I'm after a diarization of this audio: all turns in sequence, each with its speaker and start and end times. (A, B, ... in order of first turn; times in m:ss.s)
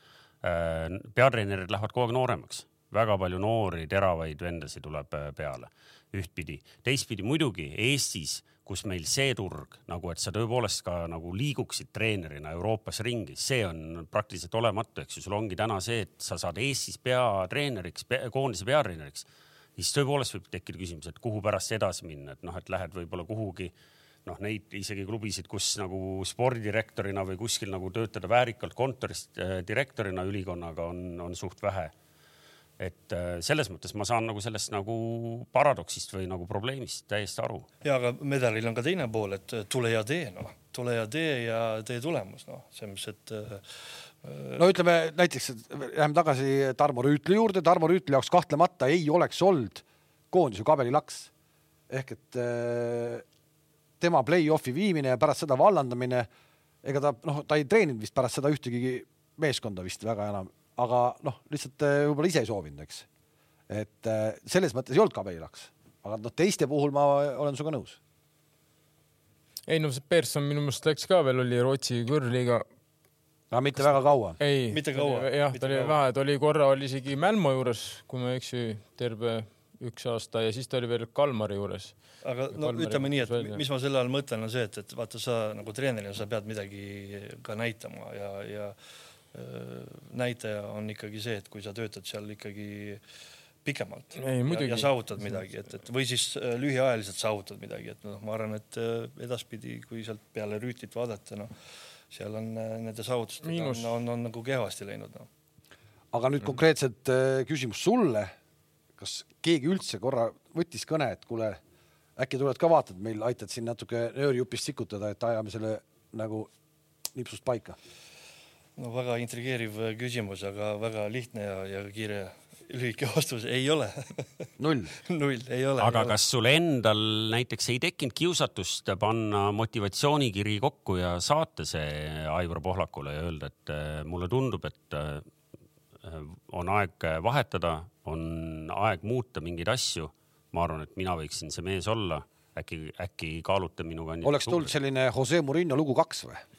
0:00.4-0:19.3 A
0:19.8-0:23.7 A
0:24.3-0:31.9 A
0:32.8-0:37.7 A
0:37.8-0:43.6 B
0:44.2-0:44.7 B
0:44.6-0:51.3 C
0:51.9-0:53.2 C
0:54.0-0:56.3 C
0:56.8-1:03.1 C
1:03.7-1:08.0 C
1:09.7-1:12.6 D
1:13.5-1:14.4 C
1:14.4-1:21.9 D
1:14.7-1:16.0 B
1:22.2-1:28.8 B
1:22.5-1:23.6 D
1:29.3-1:33.0 B
1:33.6-1:41.5 B
1:34.2-1:35.4 D
1:42.1-1:45.3 B
1:43.4-1:43.9 D
1:46.1-1:48.3 C
1:49.0-1:51.6 C
1:52.2-1:56.5 C
1:57.2-1:57.8 C
1:58.8-2:04.3 B
2:04.6-2:04.9 C
2:05.0-2:06.2 B
2:05.8-2:15.2 A
2:16.0-2:24.7 A
2:24.2-2:26.4 C